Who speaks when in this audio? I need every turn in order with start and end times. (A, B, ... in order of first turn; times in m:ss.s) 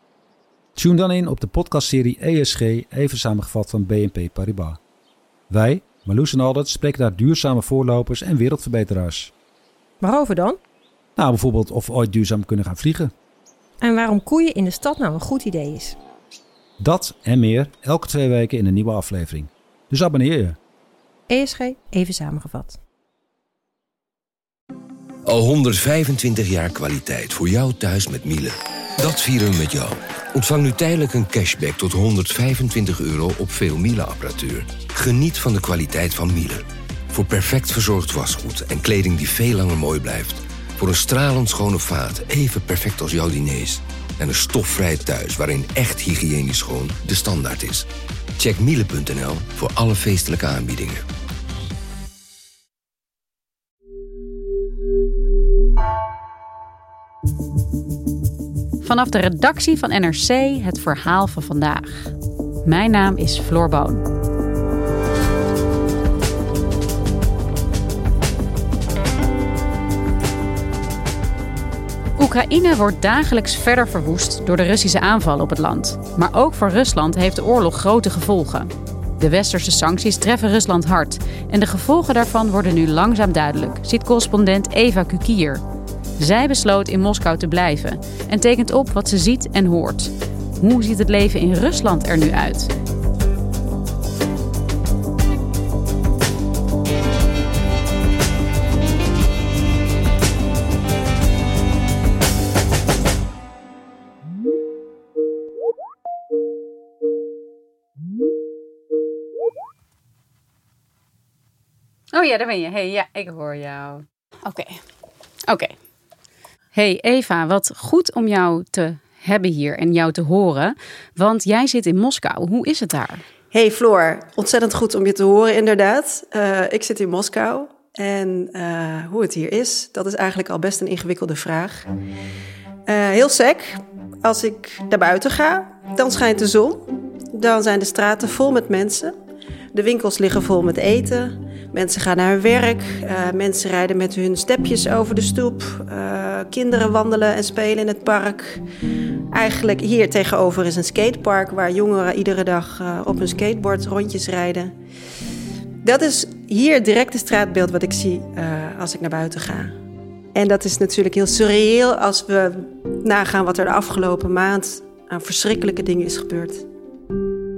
0:00.8-0:04.8 A
0:05.5-0:09.3 A
0:10.0-0:10.6 B
0:11.2-0:13.1 A
0:13.8-0:16.0 B
0:16.8-0:20.6 A
0:21.3-0:22.8 B
0:25.2-0:51.0 C
0:58.8-1:02.1 D
1:02.6-1:04.0 D
1:12.2-1:25.6 D
1:26.2-1:32.7 D
1:52.1-1:54.8 D
1:55.5-1:55.7 D
1:56.7-2:03.2 D
2:03.5-2:11.9 E
2:12.9-2:19.1 E
2:19.7-2:28.6 E
2:29.3-2:34.7 E
2:35.8-2:39.7 E
2:40.3-2:46.6 E